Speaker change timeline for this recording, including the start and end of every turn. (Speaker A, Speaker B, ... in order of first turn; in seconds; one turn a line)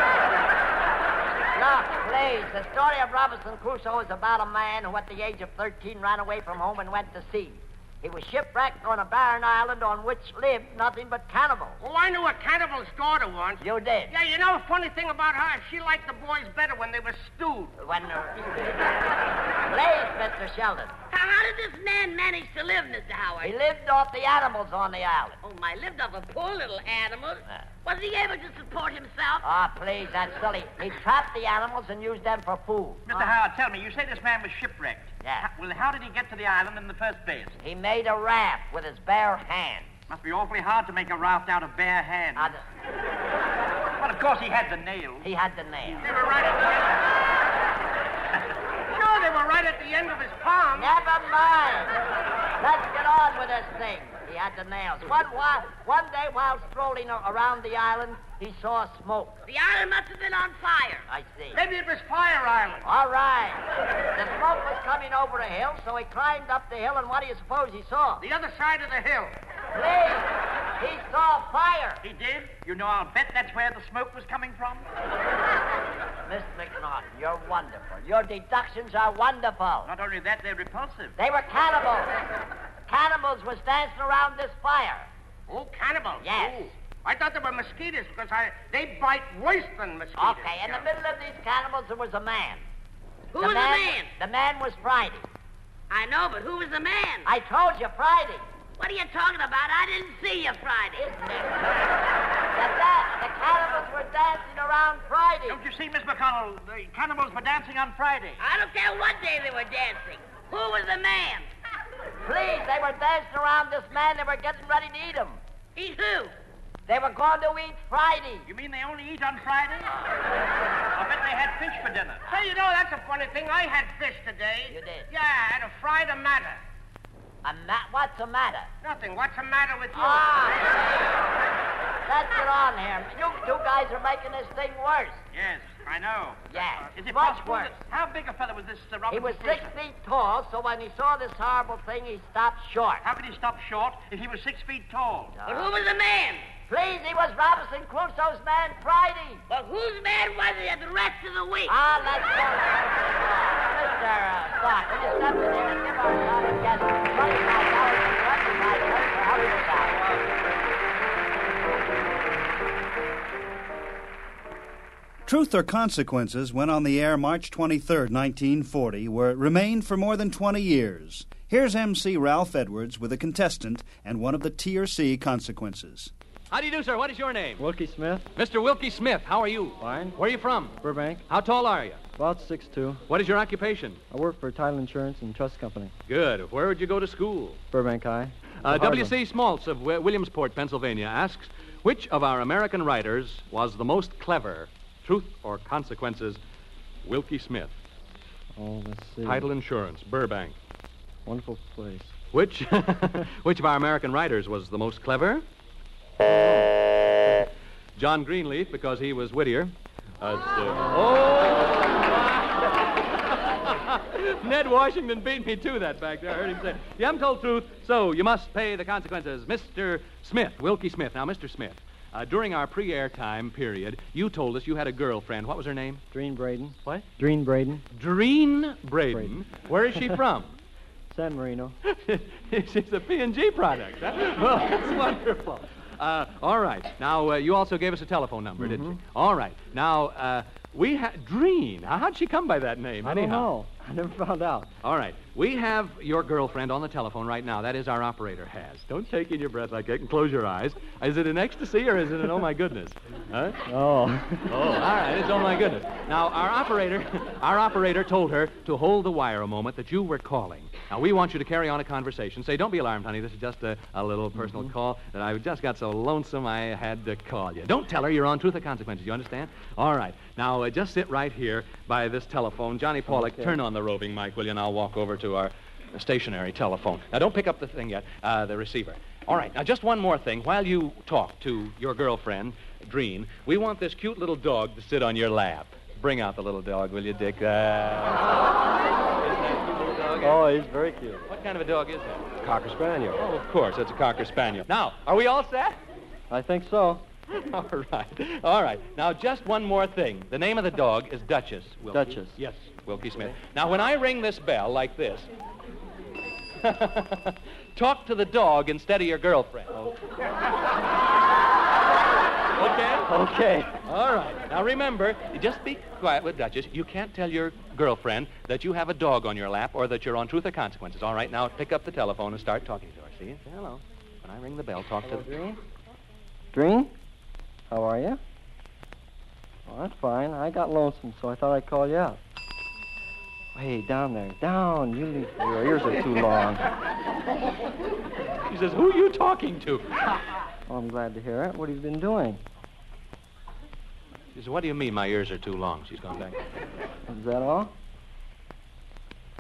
Speaker A: 1.6-11.8
Speaker B: 11.8-17.8
Speaker A: 13.6-14.1
Speaker A: 17.8-18.9
Speaker A: 19.7-20.9
Speaker C: 21.1-23.6
Speaker A: 23.4-25.4
Speaker C: 25.4-29.4
Speaker A: 29.4-33.3
Speaker D: 33.1-37.6
Speaker A: 35.2-35.5
Speaker A: 37.6-39.9
Speaker D: 40.1-42.5
Speaker A: 42.4-42.6
Speaker D: 44.0-45.3
Speaker A: 45.2-46.1
Speaker B: 46.0-47.0
Speaker B: 48.9-50.9
Speaker A: 50.8-52.0
Speaker A: 52.6-59.4
Speaker C: 59.5-61.0
Speaker A: 61.1-61.6
Speaker B: 61.5-62.9
Speaker A: 62.9-68.2
Speaker B: 68.2-69.4
Speaker A: 69.7-72.0
Speaker D: 72.0-74.9
Speaker A: 76.3-79.9
Speaker D: 79.8-81.2
Speaker A: 81.2-82.1
Speaker A: 82.9-85.1
Speaker B: 85.5-90.9
Speaker A: 86.2-86.7
Speaker A: 90.2-92.6
Speaker C: 93.3-94.1
Speaker A: 93.4-95.2
Speaker C: 95.9-97.3
Speaker A: 97.3-98.5
Speaker C: 98.8-101.1
Speaker A: 101.0-101.9
Speaker A: 102.5-105.6
Speaker D: 105.5-108.4
Speaker C: 108.4-111.5
Speaker A: 112.2-115.4
Speaker C: 115.8-116.3
Speaker A: 116.9-118.5
Speaker D: 118.5-119.9
Speaker D: 120.9-122.2
Speaker B: 122.3-126.6
Speaker A: 124.7-125.1
Speaker A: 127.4-128.7
Speaker B: 128.8-130.3
Speaker A: 129.9-130.8
Speaker A: 132.1-135.2
Speaker D: 135.3-139.7
Speaker A: 136.5-137.8
Speaker A: 139.1-143.0
Speaker D: 143.0-145.4
Speaker A: 145.4-145.7
Speaker C: 145.4-146.4
Speaker A: 146.7-149.4
Speaker C: 149.5-151.8
Speaker A: 151.7-160.0
Speaker E: 165.2-176.1
Speaker F: 176.5-177.7
Speaker G: 177.6-178.3
Speaker F: 178.4-182.0
Speaker G: 179.8-180.2
Speaker G: 180.8-181.2
Speaker G: 182.2-183.0
Speaker F: 183.1-184.0
Speaker G: 184.1-185.9
Speaker F: 186.1-187.6
Speaker G: 187.7-189.1
Speaker F: 188.6-196.4
Speaker F: 197.0-197.8
Speaker G: 198.6-199.5
Speaker F: 199.2-200.6
Speaker G: 201.3-202.2
Speaker F: 202.3-205.4
Speaker G: 206.2-206.7
Speaker F: 208.0-226.0
Speaker G: 226.1-227.8
Speaker F: 227.9-230.5
Speaker G: 229.1-229.4
Speaker G: 231.1-231.8
Speaker F: 231.9-243.5
Speaker G: 238.6-239.0
Speaker G: 243.0-244.7
Speaker F: 244.8-253.6
Speaker G: 253.7-254.6
Speaker F: 254.5-288.5
Speaker G: 273.1-273.6
Speaker F: 289.2-290.4
Speaker G: 290.2-291.2
Speaker F: 291.3-292.5
Speaker G: 292.4-293.2
Speaker F: 293.1-295.8
Speaker G: 296.3-297.0
Speaker F: 297.3-305.3
Speaker G: 301.9-302.4
Speaker F: 306.6-309.9
Speaker F: 312.6-313.1
Speaker G: 313.1-313.7
Speaker F: 313.9-325.3
Speaker G: 325.0-325.6
Speaker G: 326.5-326.9
Speaker G: 327.7-328.2
Speaker G: 329.7-332.2
Speaker G: 333.6-336.6
Speaker F: 338.5-339.9
Speaker G: 340.7-342.4
Speaker F: 344.3-346.4
Speaker G: 347.1-347.7